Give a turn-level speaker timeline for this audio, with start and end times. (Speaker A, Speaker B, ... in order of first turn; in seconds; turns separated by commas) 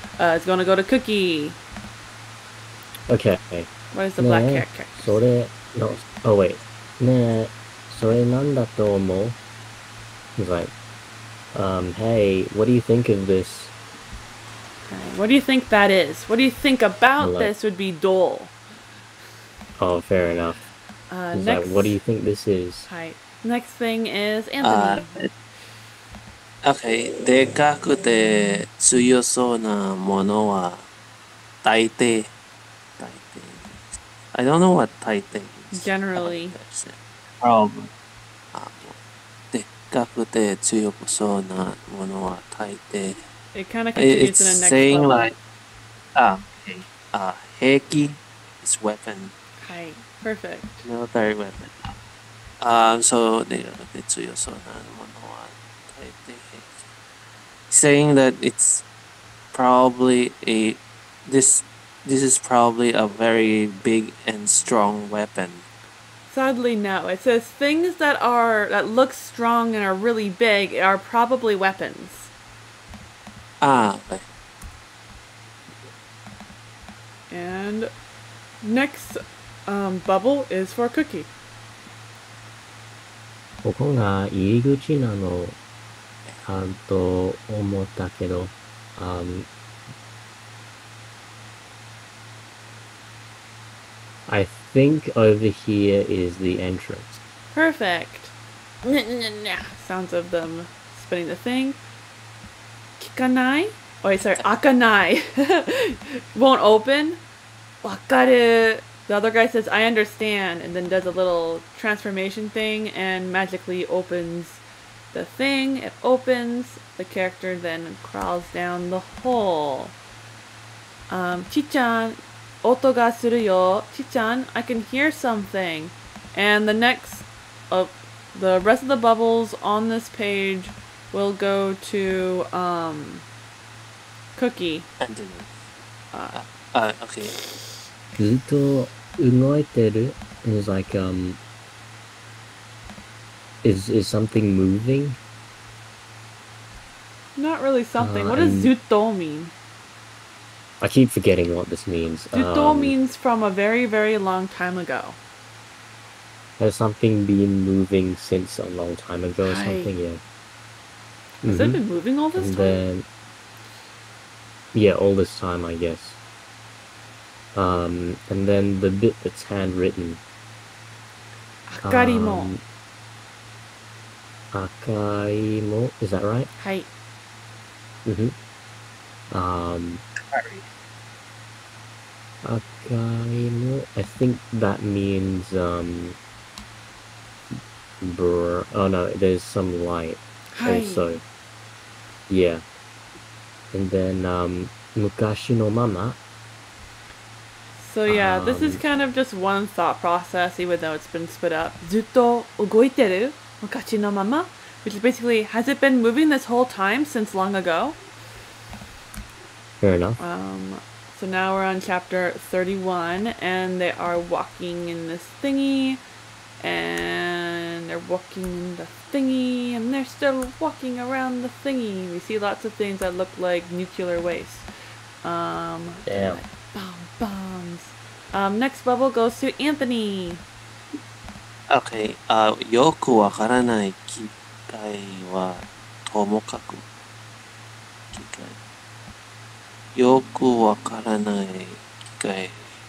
Speaker A: 0.2-1.6, Speaker B: 3.1-9.4, Speaker A: 3.9-5.2, Speaker B: 10.4-10.7, Speaker B: 11.5-13.7, Speaker A: 14.9-18.6, Speaker B: 17.2-17.5, Speaker B: 19.8-20.6, Speaker A: 21.1-22.0, Speaker B: 21.3-22.9, Speaker A: 22.9-25.2, Speaker C: 24.6-25.3, Speaker C: 26.6-30.9, Speaker C: 31.6-32.3, Speaker C: 33.0-37.9, Speaker A: 35.7-36.6, Speaker C: 38.5-39.0, Speaker C: 39.5-43.2, Speaker A: 43.5-45.3, Speaker C: 44.0-45.4, Speaker C: 46.1-49.3, Speaker A: 49.6-50.9, Speaker C: 50.9-51.9, Speaker C: 52.6-56.8, Speaker C: 57.7-58.9, Speaker C: 59.5-65.7, Speaker A: 66.3-72.3, Speaker C: 73.6-74.2, Speaker A: 77.3-77.9, Speaker A: 78.6-81.3, Speaker B: 83.6-85.6, Speaker B: 86.4-89.5, Speaker B: 94.3-97.2, Speaker A: 97.5-101.8, Speaker A: 103.0-107.2, Speaker A: 107.8-114.6, Speaker A: 115.1-120.0, Speaker A: 121.1-133.2, Speaker A: 134.4-134.9, Speaker C: 135.0-135.5, Speaker A: 136.1-136.4, Speaker C: 136.3-137.4, Speaker B: 138.2-141.4, Speaker B: 143.6-145.2, Speaker A: 147.4-149.5, Speaker B: 148.0-148.7, Speaker B: 150.8-153.0, Speaker A: 152.3-155.2, Speaker B: 156.6-160.2, Speaker A: 159.4-159.9, Speaker B: 161.4-161.8, Speaker A: 161.5-162.8, Speaker B: 162.4-163.1, Speaker B: 164.7-166.2, Speaker B: 167.6-170.2, Speaker A: 171.7-172.5, Speaker B: 171.8-172.6, Speaker B: 174.5-176.5, Speaker A: 176.6-176.9, Speaker B: 178.1-178.3, Speaker B: 179.3-180.0, Speaker C: 180.3-180.7, Speaker B: 182.4-186.2, Speaker B: 187.5-191.2, Speaker A: 190.5-191.1, Speaker B: 192.3-192.6, Speaker B: 193.7-196.2, Speaker A: 197.8-208.0, Speaker B: 198.1-198.8, Speaker B: 209.8-210.2, Speaker A: 210.2-216.0, Speaker A: 216.6-224.7, Speaker A: 225.2-230.4, Speaker B: 226.1-226.4, Speaker C: 231.7-236.8, Speaker C: 238.1-238.6, Speaker C: 240.0-242.7